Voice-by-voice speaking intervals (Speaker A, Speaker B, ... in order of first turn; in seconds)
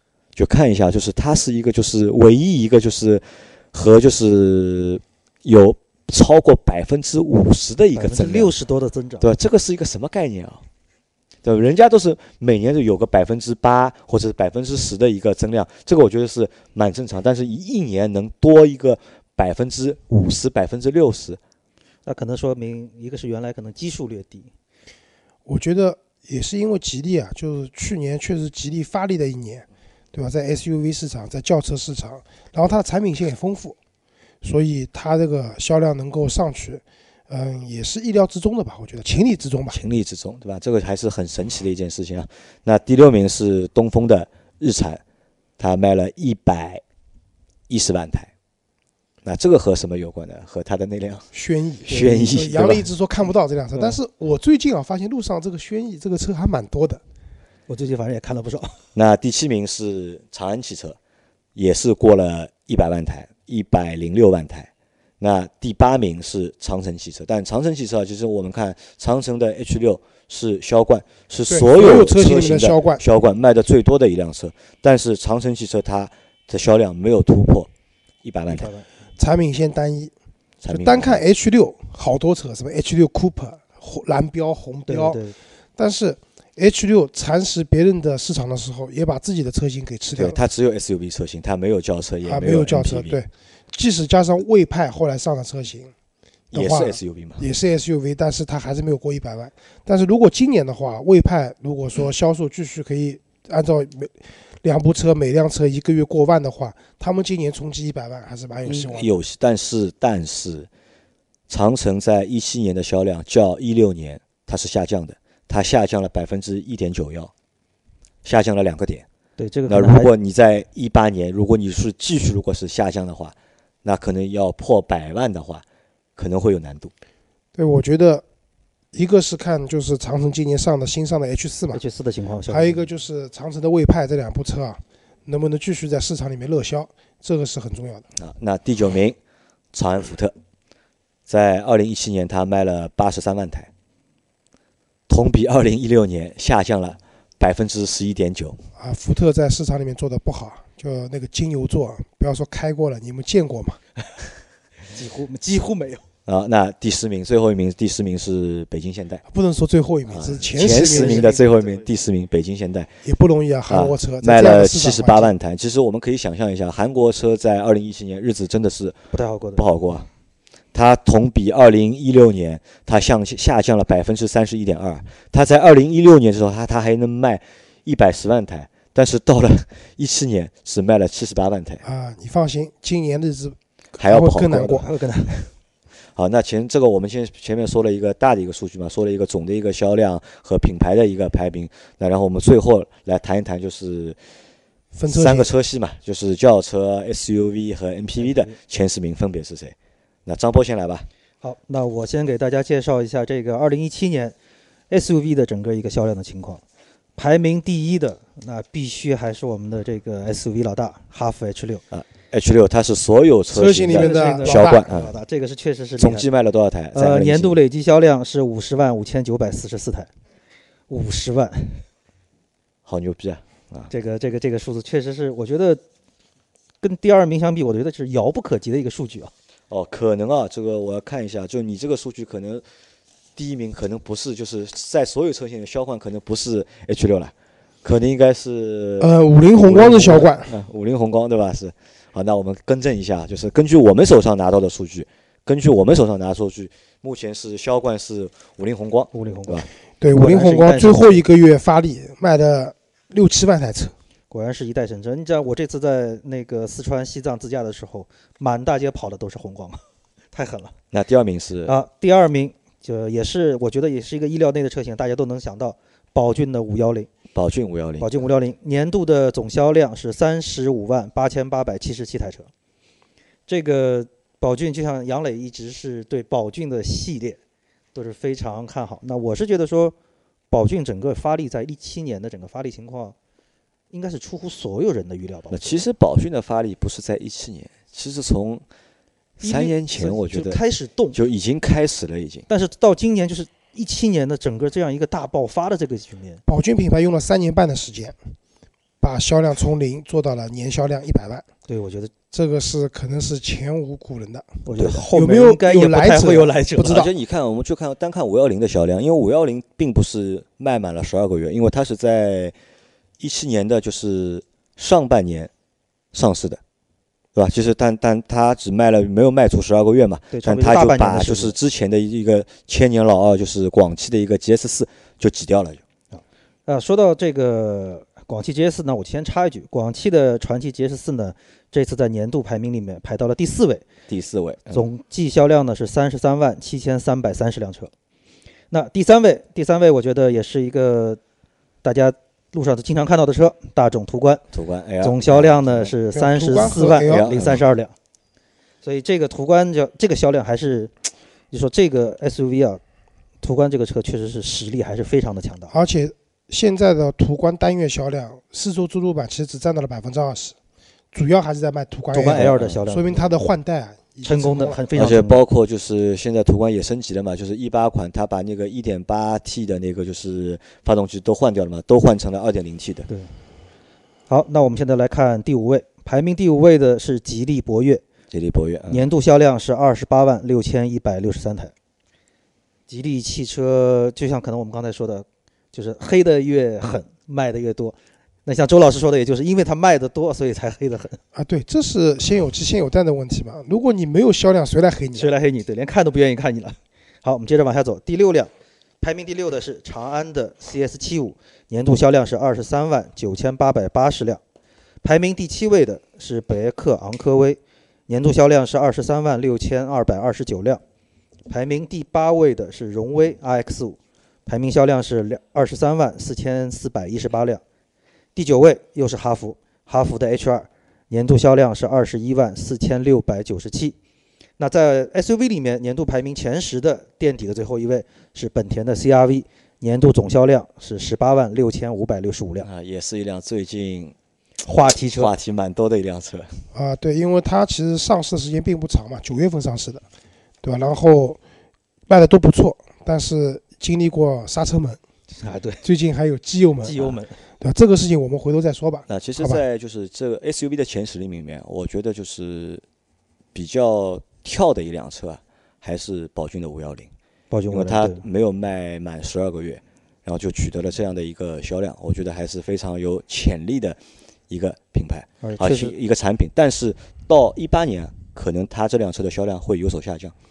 Speaker A: 0.4-8.5, 9.2-10.6, 11.4-21.4, 39.7-45.0, 45.6-46.8, 47.7-48.3, 49.2-51.3, 51.9-52.9, 59.0-61.0, 61.5-77.7, 78.2-78.7, 80.6-81.2, 90.2-93.2, 96.5-97.4, 108.7-110.7, 111.5-117.3, 118.2-119.1, 119.7-125.6, 126.2-126.9, 138.2-139.2, 139.7-140.3, 141.3-143.7, 145.1-148.6, 156.3-159.2, 160.1-162.9, 163.7-169.0, 169.6-170.1, 170.7-181.8, 184.0-184.8, 186.2-194.2, 195.1-199.8, 200.3-201.1, 211.9-215.1, 216.0-217.6, 222.9-223.9, 229.7-232.6, 233.4-249.7, 260.9-261.8, 267.3-268.1, 285.5-288.6, 289.4-290.6, 291.1-292.5, 306.9-312.6, 313.2-315.5, 316.1-316.6, 317.4-325.8, 334.1-334.9, 344.5-345.9, 347.0-347.6, 362.3-362.8, 364.9-373.1, 378.3-379.1, 432.6-434.1, 435.1-436.6, 449.1-452.8, 453.5-457.1, 457.7-470.3
Speaker B: 8.0-9.3, 22.1-24.5, 51.9-52.3, 57.7-58.8, 78.5-78.9, 84.9-85.4, 119.4-120.1, 131.7-132.9, 154.9-156.0, 160.6-161.9, 169.1-169.7, 184.6-185.5, 198.2-198.6, 201.4-204.3, 204.9-206.6, 207.2-211.8, 213.9-216.3, 216.9-220.1, 220.9-221.8, 223.9-225.8, 226.8-229.3, 249.1-251.2, 254.3-260.7, 261.7-267.1, 268.0-272.5, 273.5-277.4, 277.9-279.9, 280.5-283.1, 283.9-285.8, 289.4-291.2, 292.5-296.4, 301.7-302.1, 304.6-307.0, 320.3-321.6, 326.1-333.8, 334.7-337.9, 338.7-341.2, 341.8-344.4, 345.0-347.9, 348.8-350.9, 351.5-352.8, 353.4-355.7, 362.1-363.3, 364.2-365.4, 374.3-378.0, 378.9-381.7, 382.9-391.2, 395.1-404.4, 405.0-410.8, 411.5-417.6, 418.4-424.0, 424.6-432.7, 434.7-435.3, 445.4-445.8, 446.8-447.4, 457.5-458.2, 465.4-465.9
Speaker C: 25.5-33.8, 34.4-39.8, 51.3-57.0, 71.5-73.0, 79.2-80.1, 80.7-85.2, 85.8-90.4, 92.2-95.9, 96.5-109.1, 127.5-128.2, 128.9-131.8, 132.5-138.1, 148.8-153.8, 159.3-161.3, 163.0-165.3, 181.8-184.9, 194.9-195.5, 213.5-214.8, 239.0-240.5, 250.0-253.9, 296.5-298.2, 299.0-301.4, 302.3-307.1, 346.1-347.3, 355.7-360.6, 361.1-364.8, 391.4-395.3, 436.7-440.0, 440.6-441.4, 442.1-445.0, 445.8-449.6